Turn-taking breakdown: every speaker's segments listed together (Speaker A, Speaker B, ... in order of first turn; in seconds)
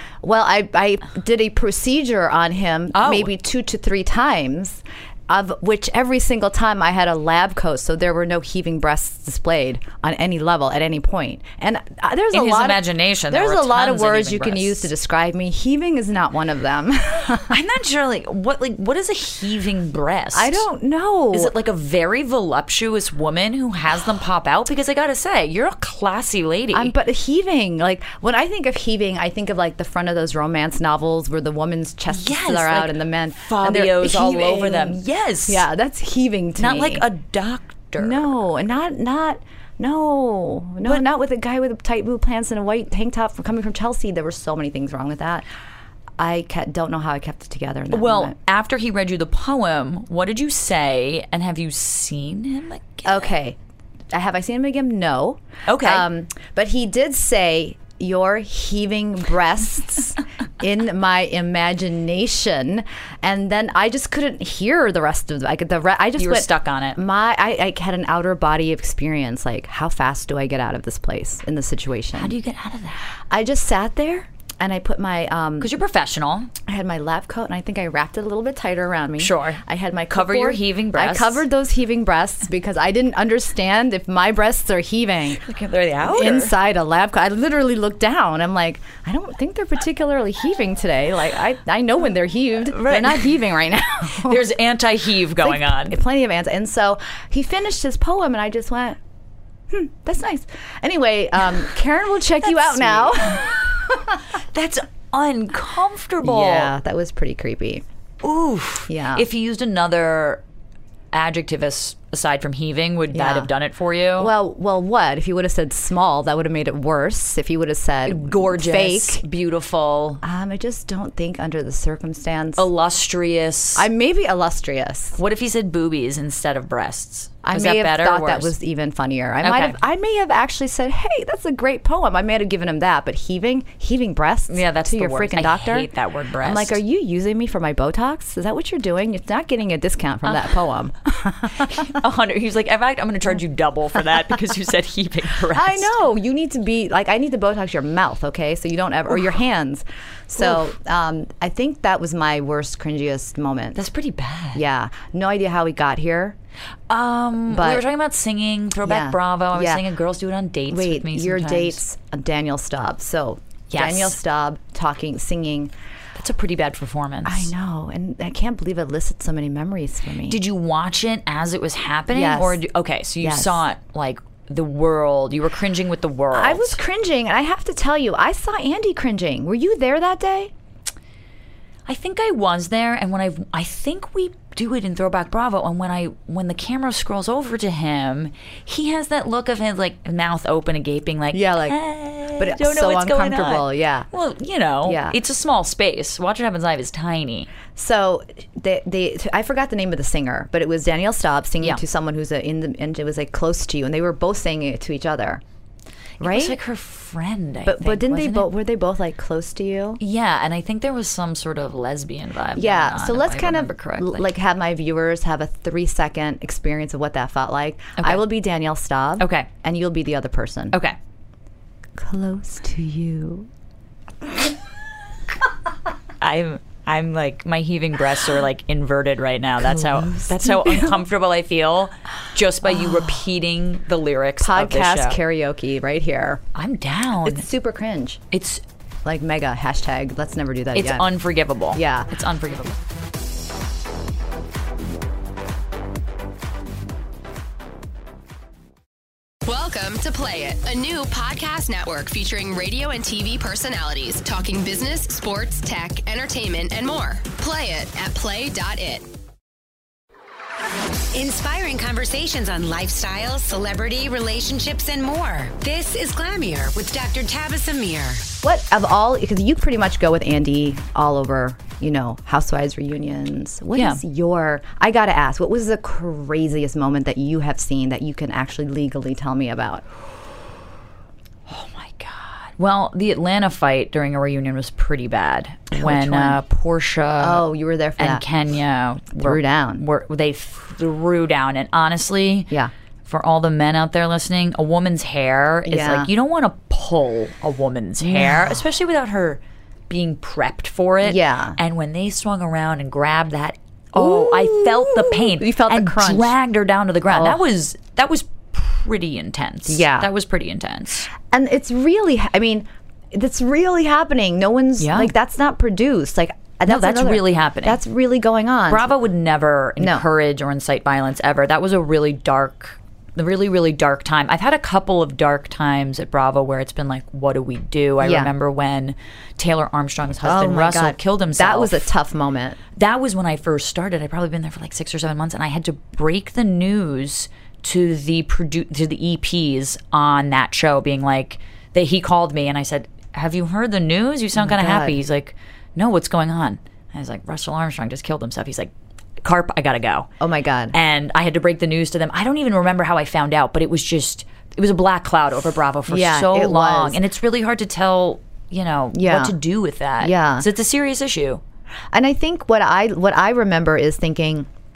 Speaker A: 0.2-17.6, 20.3-21.5, 26.7-37.0, 38.0-45.5, 46.2-48.3, 53.0-53.6, 54.1-72.3, 73.3-75.7, 76.7-85.4, 86.0-94.4, 95.4-99.0, 99.7-104.2, 106.2-107.8, 108.9-109.2, 113.1-113.5, 114.2-119.2, 120.2-122.6, 123.8-125.2, 127.4-141.9, 145.5-153.8, 154.5-156.3, 157.5-157.8, 158.8-159.8, 160.7-165.7, 167.2-170.4, 172.1-172.6, 173.2-173.6, 176.3-180.5, 191.3-191.8, 192.3-194.1, 194.8-195.2, 197.7-205.4, 206.2-206.6, 207.6-210.0, 212.6-220.8, 222.0-223.5, 229.6-231.0, 232.6-233.1, 234.4-236.4, 237.2-238.2, 239.0-241.1, 241.7-242.1, 268.4-279.8, 285.7-286.4, 287.2-288.2, 289.1-289.8, 295.7-296.1, 298.0-298.6, 301.0-301.6, 303.9-306.3, 307.1-307.4, 309.7-310.1, 311.2-318.9, 319.8-320.0, 328.0-328.3, 330.2-332.6, 344.4-345.0, 350.2-350.7, 355.9-357.0, 358.9-359.4, 360.0-360.5, 361.9-364.5
Speaker B: 2.9-3.3, 12.3-14.9, 17.4-20.6, 21.3-26.9, 32.1-35.7, 36.6-38.3, 47.9-53.3, 55.6-56.1, 66.2-67.0, 72.2-73.1, 75.6-76.5, 79.2-81.5, 85.4-86.5, 92.7-93.3, 94.0-96.0, 102.4-103.5, 104.3-106.7, 108.2-110.4, 111.1-114.3, 118.0-120.2, 122.6-123.9, 125.2-128.5, 129.4-129.7, 134.5-136.8, 141.6-145.9, 153.7-154.6, 156.9-161.8, 163.7-164.2, 166.2-167.5, 170.3-176.8, 181.9-197.5, 206.2-208.5, 210.0-214.3, 218.0-218.2, 219.2-219.5, 220.7-221.0, 226.2-235.2, 236.5-237.5, 238.3-238.6, 240.7-242.8, 273.7-274.0, 281.5-287.4, 288.0-292.5, 293.1-311.1, 314.8-315.1, 316.7-317.8, 318.7-331.9, 332.8-350.1, 350.7-361.4
Speaker C: 249.4-259.1
Speaker D: 261.1-268.3